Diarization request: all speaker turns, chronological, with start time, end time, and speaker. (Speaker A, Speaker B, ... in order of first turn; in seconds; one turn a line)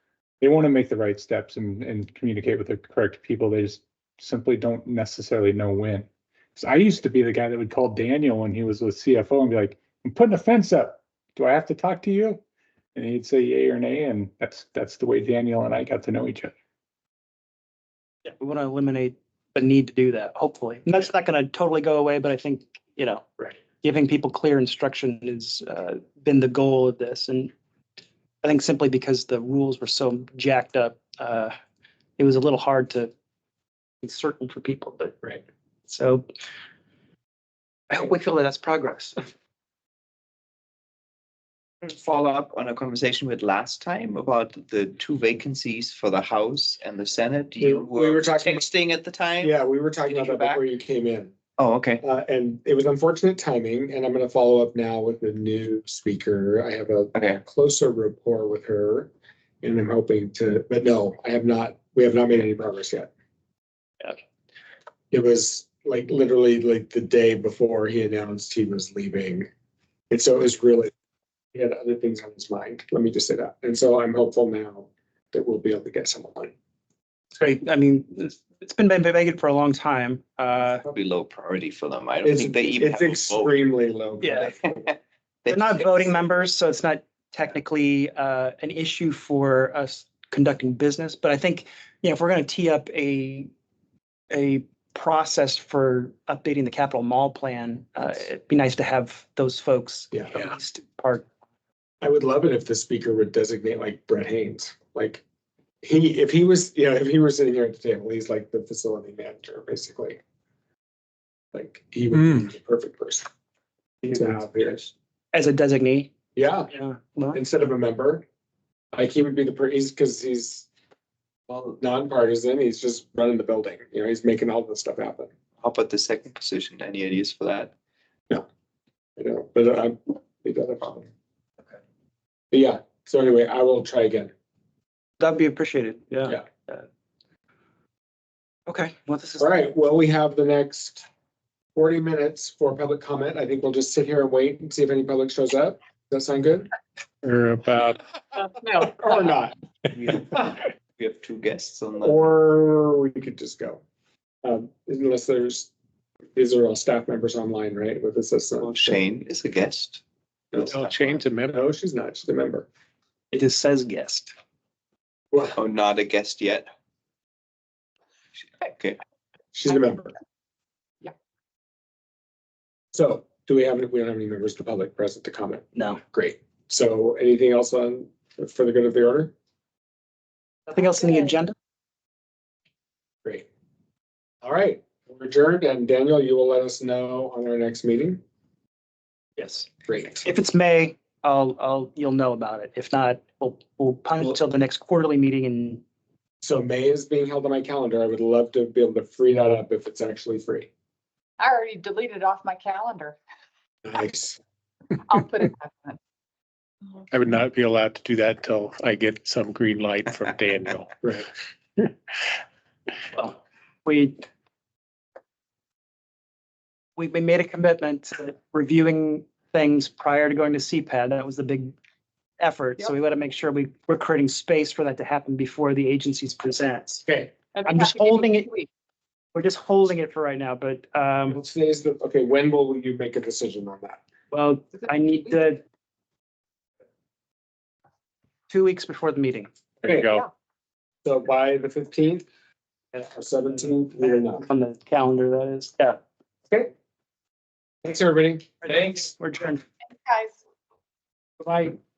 Speaker A: 0.4-12.4
Speaker A: 12.9-16.5
Speaker B: 18.2-27.5
Speaker B: 28.4-31.5
Speaker B: 32.2-33.1
Speaker B: 34.0-35.4
Speaker B: 35.9-36.3
Speaker B: 37.9-39.3
Speaker C: 41.8-49.5
Speaker D: 47.6-48.7
Speaker D: 49.4-51.3
Speaker C: 50.1-50.6
Speaker C: 51.6-52.0
Speaker D: 52.0-59.1
Speaker C: 57.1-57.4
Speaker D: 59.6-63.1
Speaker D: 65.1-69.5
Speaker D: 70.1-70.9
Speaker D: 71.5-76.5
Speaker B: 77.4-80.8
Speaker C: 80.8-83.5
Speaker D: 82.2-84.7
Speaker B: 84.2-84.5
Speaker C: 84.5-86.1
Speaker B: 85.5-93.5
Speaker B: 94.3-101.2
Speaker D: 102.0-105.2
Speaker D: 105.8-110.2
Speaker D: 111.5-113.2
Speaker B: 114.0-114.4
Speaker D: 114.1-114.9
Speaker B: 115.3-116.1
Speaker D: 116.3-116.7
Speaker B: 116.7-117.4
Speaker D: 117.3-118.2
Speaker D: 118.9-120.7
Speaker D: 121.5-125.3
Speaker C: 125.6-127.7
Speaker D: 129.2-131.1
Speaker D: 132.5-134.3
Speaker B: 135.2-136.8
Speaker B: 138.7-139.5
Speaker D: 139.4-141.0
Speaker D: 141.7-146.7
Speaker E: 147.2-148.0
Speaker F: 148.4-149.3
Speaker D: 148.8-149.5
Speaker C: 150.0-150.4
Speaker D: 150.1-150.5
Speaker C: 151.0-152.2
Speaker D: 152.0-153.8
Speaker D: 154.4-155.7
Speaker D: 156.3-159.0
Speaker C: 158.6-160.0
Speaker D: 160.5-162.7
Speaker E: 160.6-161.6
Speaker B: 163.3-164.3
Speaker D: 165.3-165.6
Speaker C: 165.6-166.7
Speaker C: 168.6-169.0
Speaker D: 169.5-170.1
Speaker D: 172.9-179.3
Speaker B: 175.7-176.0
Speaker B: 180.7-181.5
Speaker F: 180.8-181.3
Speaker D: 184.4-188.2
Speaker B: 189.4-189.7
Speaker D: 189.9-190.2
Speaker B: 190.2-195.8
Speaker D: 196.4-200.7
Speaker F: 201.4-203.2
Speaker D: 203.8-204.4
Speaker F: 205.1-206.0
Speaker E: 207.1-211.2
Speaker B: 213.1-214.2
Speaker B: 217.0-221.7
Speaker B: 222.4-227.1
Speaker D: 227.1-227.3
Speaker B: 227.6-228.7
Speaker F: 228.3-228.6
Speaker B: 229.3-231.4
Speaker D: 231.3-234.0
Speaker B: 234.3-235.6
Speaker B: 238.5-239.5
Speaker D: 239.8-240.2
Speaker E: 239.8-240.3
Speaker D: 241.0-242.2
Speaker D: 242.9-244.4
Speaker B: 244.0-246.0
Speaker D: 247.8-248.5
Speaker B: 248.6-249.6
Speaker F: 250.1-250.3